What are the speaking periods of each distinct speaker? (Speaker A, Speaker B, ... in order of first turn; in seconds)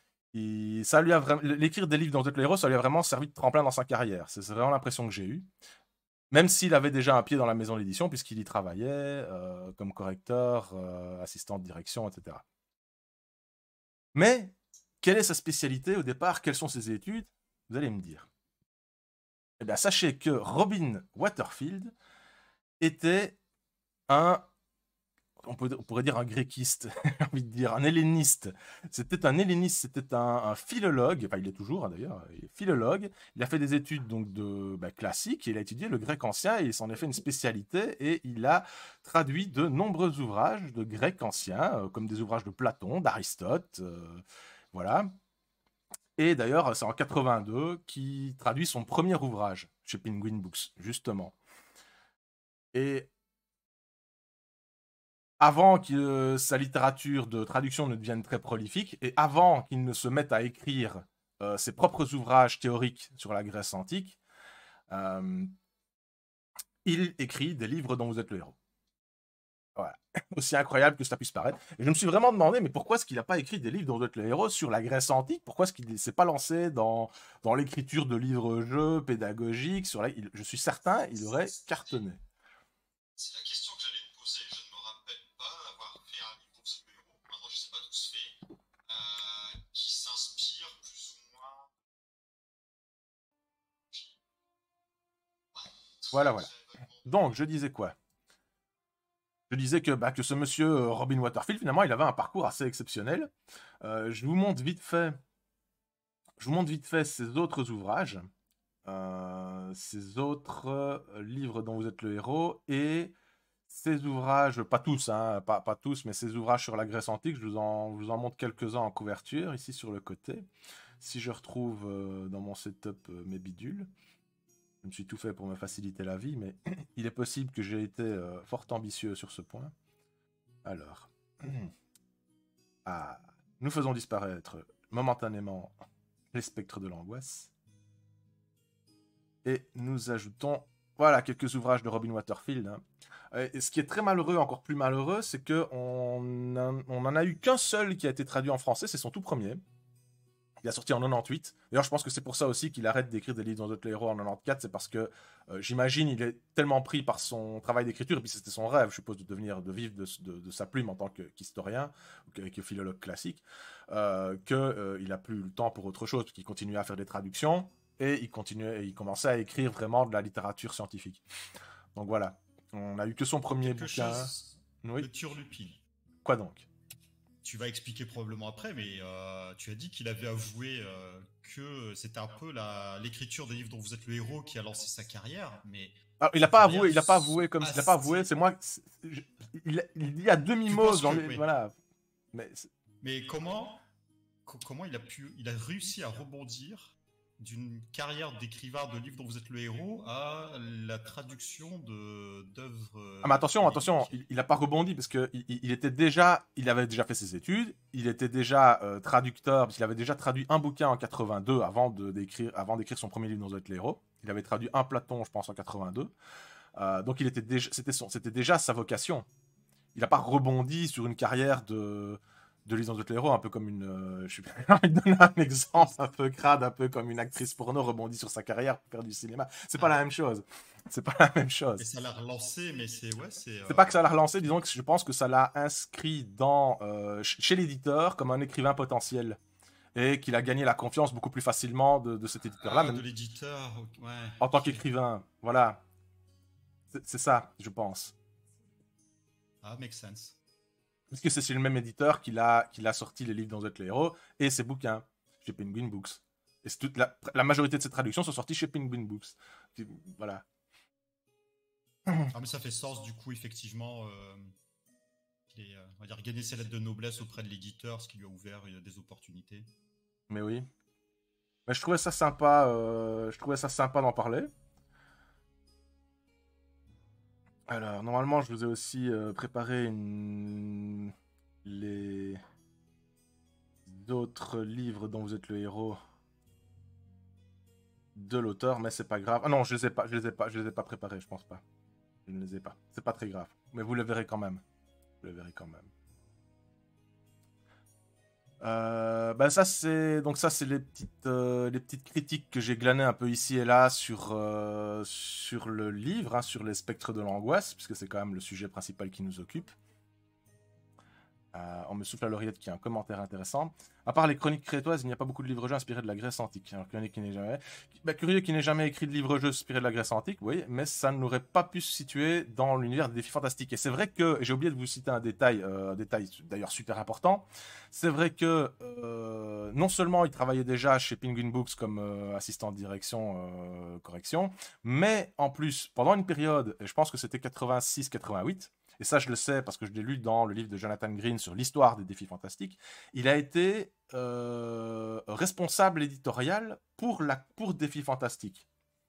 Speaker A: 0.3-5.5, 6.3-12.4, 14.1-18.3, 19.6-21.9, 22.8-23.4, 24.1-24.4, 25.4-45.1, 46.2-51.4, 52.7-53.1, 55.4-64.2, 64.9-65.5, 66.8-68.5, 69.8-82.2, 96.0-97.9, 99.5-103.3, 103.8-105.2, 106.4-108.3, 108.8-113.1, 113.7-120.5, 121.0-123.9, 124.8-129.7, 130.6-131.7, 132.8-135.7, 136.3-137.5, 139.4-142.8, 143.3-149.6, 150.6-171.2, 171.9-174.3, 174.8-175.1, 176.2-176.7, 186.2-191.7, 192.3-192.7, 203.2-216.1, 216.7-219.2, 219.9-231.8, 233.7-239.4, 239.9-243.0, 244.4-245.8, 246.9-248.1, 251.1-260.4, 270.3-270.7, 271.7-274.5, 277.7-282.4, 283.9-286.0, 288.1-291.6, 292.2-294.6, 295.2-295.9, 298.6-309.7, 311.5-348.6
Speaker B: 83.2-88.3, 89.5-91.4, 173.6-175.8, 177.4-188.3, 190.7-191.5, 193.0-193.8, 194.4-204.2, 231.8-234.0, 242.6-244.8, 249.6-250.4, 262.3-264.5, 265.5-269.7